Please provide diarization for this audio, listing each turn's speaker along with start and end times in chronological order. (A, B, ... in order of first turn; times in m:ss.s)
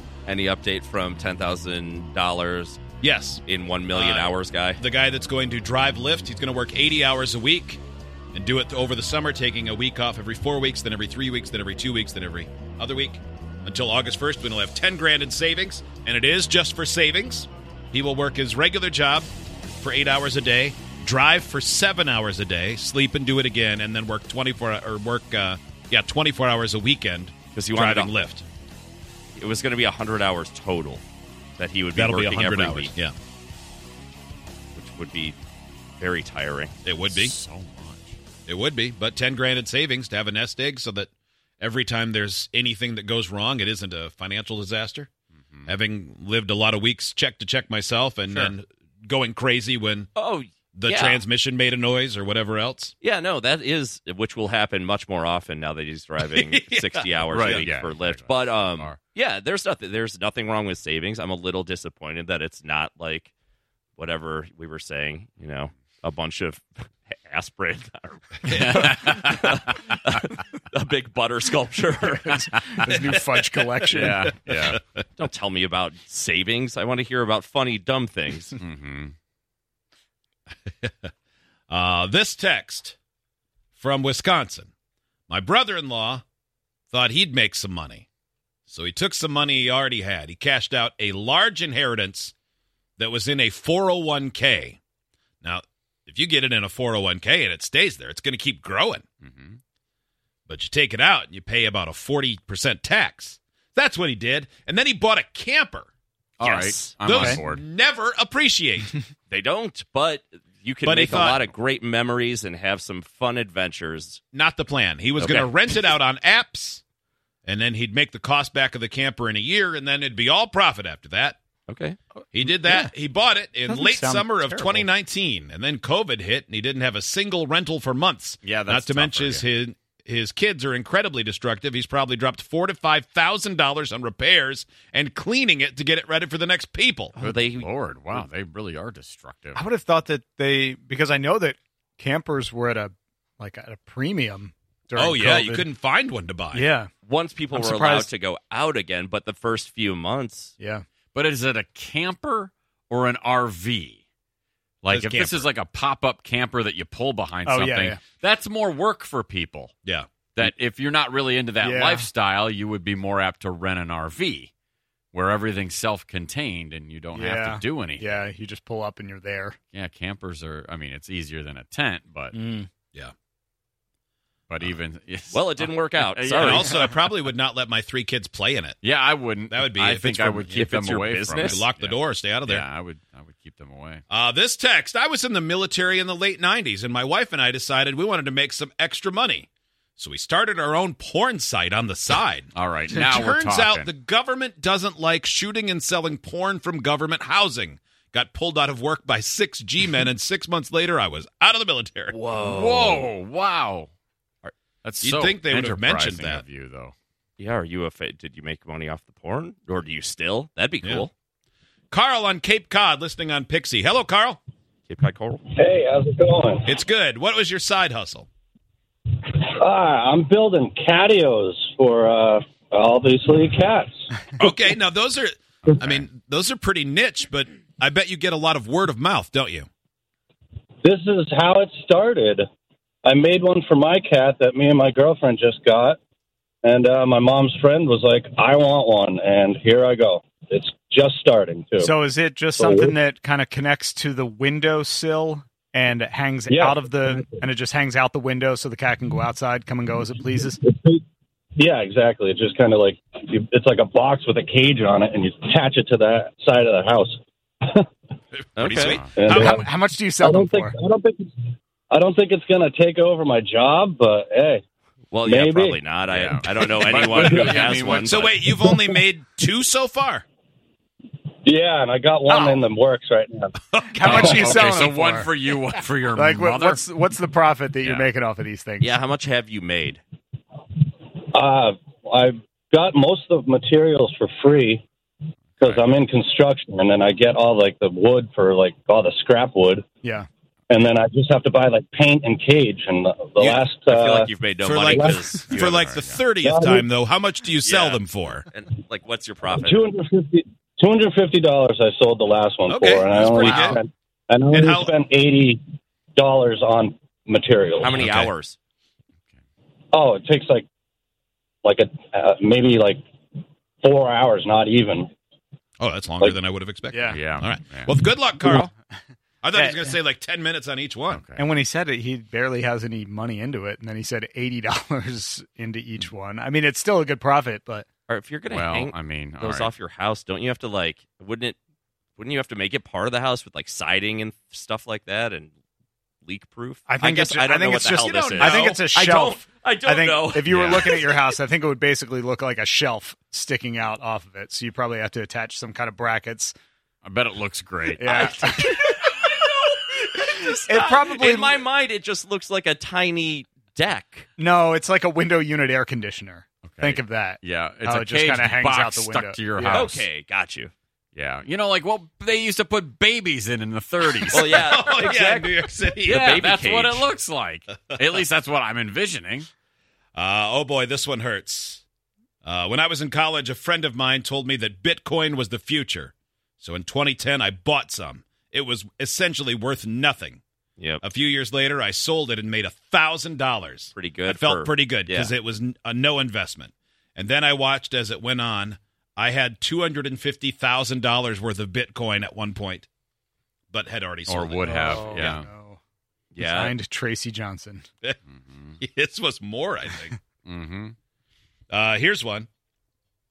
0:00.2-0:02.8 A
0:03.0-0:03.4 B
0:03.4-0:04.8 A
0:03.9-0:07.8 B
0:08.3-0:28.4 B
0:27.5-0:28.2 A
0:29.4-0:31.0 A
0:31.6-0:32.9 A
0:32.0-0:33.1 B
0:34.7-0:35.3 A
0:36.0-0:36.7 A
0:36.8-0:37.3 B
0:37.1-0:38.2 C
0:38.4-0:45.1 B
0:45.6-0:50.1 B
0:50.2-0:51.2 A
0:50.8-0:52.9 B
0:53.0-1:03.3 A
0:56.5-0:57.6 B
0:57.3-0:59.0 C
1:04.0-1:12.8 A
1:08.6-1:09.3 C
1:12.3-1:14.4 D
1:13.9-1:14.5 B
1:14.0-1:14.8 C
1:15.2-1:18.5 A
1:18.6-1:19.1 C
1:20.7-1:21.1 B
1:21.7-1:23.0 B
1:23.8-1:24.7 B
1:25.3-1:26.2 B
1:26.9-1:28.0 B
1:28.7-1:32.3 B
1:33.0-1:34.8 B
1:35.4-1:39.0 B
1:39.2-1:39.6 C
1:40.5-1:45.9 B
1:46.4-1:47.6 C
1:46.4-1:46.9 A
1:47.0-1:48.9 B
1:47.1-1:47.4 D
1:49.3-1:54.2 A
1:50.8-1:51.4 B
1:54.3-1:56.8 B
1:55.2-1:55.9 A
1:57.4-2:01.4 B
2:01.7-2:02.0 A
2:02.3-2:17.2 B
2:02.4-2:02.9 D
2:03.6-2:04.9 D
2:08.4-2:09.5 C
2:17.2-2:18.2 A
2:17.2-2:19.6 C
2:19.5-2:25.7 D
2:25.0-2:26.6 B
2:26.5-2:26.9 D
2:27.0-2:30.5 A
2:27.5-2:28.1 D
2:30.6-2:30.8 D
2:31.1-2:34.0 C
2:34.8-2:44.5 C
2:34.9-2:35.4 B
2:37.4-2:38.0 D
2:39.8-2:40.1 B
2:41.6-2:42.1 D
2:45.1-2:48.1 C
2:47.1-2:49.6 D
2:49.7-2:52.3 C
2:52.3-2:52.7 D
2:54.5-2:57.1 C
2:55.3-2:56.7 A
2:56.5-2:58.8 B
2:58.8-3:04.0 C
2:59.5-3:00.7 B
2:59.8-3:01.6 A
3:01.5-3:02.6 B
3:04.1-3:22.1 B
3:12.5-3:13.9 C
3:22.1-3:23.1 A
3:22.4-3:23.9 C
3:24.8-3:26.9 C
3:25.0-3:26.4 B
3:27.4-3:31.1 A
3:31.9-3:34.4 B
3:34.9-3:35.4 A
3:35.5-3:36.7 E
3:36.7-3:38.3 B
3:39.2-3:44.0 E
3:44.4-3:49.7 B
3:50.8-3:52.4 E
3:53.0-3:56.0 E
3:56.6-4:01.9 E
4:01.8-4:10.6 D
4:02.6-4:02.9 E
4:06.5-4:07.3 E
4:10.6-4:11.0 E
4:11.6-4:17.8 E
4:18.6-4:19.5 B
4:18.6-4:19.0 A
4:19.2-4:19.7 E
4:19.2-4:20.7 D
4:20.2-4:21.3 E
4:21.9-4:24.6 E
4:25.1-4:28.4 A
4:25.2-4:25.8 E
4:26.1-4:28.1 C
4:26.9-4:27.7 E
4:28.0-4:30.2 B
4:28.4-4:28.8 E
4:31.4-4:34.8 E
4:32.3-4:32.6 D
4:33.7-4:34.8 B
4:33.9-4:35.3 D
4:34.0-4:36.8 C
4:36.1-4:39.0 D
4:38.8-4:40.0 A
4:41.3-4:44.8 E
4:45.6-4:49.8 E
4:50.7-4:55.7 E
4:53.4-4:55.8 A
4:54.6-4:58.4 B
4:55.5-4:56.2 C
4:56.4-4:56.8 E
4:57.6-4:58.0 A
4:58.5-4:59.8 A
4:59.5-5:05.6 E
5:02.7-5:03.8 B
5:04.5-5:04.9 B
5:06.2-5:08.0 E
5:07.8-5:08.6 A
5:08.0-5:08.3 B
5:09.9-5:10.6 E
5:11.6-5:13.0 E
5:13.8-5:15.1 E
5:15.8-5:18.7 B
5:16.9-5:17.2 D
5:17.1-5:17.9 C
5:19.4-5:21.2 B
5:19.5-5:20.0 D
5:21.1-5:21.4 C
5:21.4-5:27.8 D
5:28.1-5:31.6 A
5:28.5-5:29.7 C
5:32.2-5:35.5 A
5:36.2-5:41.1 A
5:36.9-5:46.5 D
5:38.0-5:38.8 B
5:40.5-5:40.8 C
5:47.0-5:48.4 C
5:48.0-5:49.0 D
5:48.1-5:49.5 A
5:50.3-5:54.3 A
5:50.6-5:51.6 D
5:54.4-5:59.8 D
5:56.6-6:00.0 C
5:59.7-6:00.7 A
6:01.1-6:04.4 C
6:04.3-6:07.0 A
6:04.4-6:06.1 B
6:06.0-6:09.5 C
6:10.1-6:11.8 B
6:12.4-6:20.4 B
6:21.0-6:32.9 B
6:23.9-6:25.3 A
6:33.7-6:35.4 B
6:34.3-6:35.4 C
6:34.6-6:35.8 D
6:36.3-6:36.7 A
6:36.4-6:37.8 D
6:38.3-6:38.8 C
6:38.8-6:40.2 B
6:40.4-6:41.0 C
6:41.7-6:42.5 B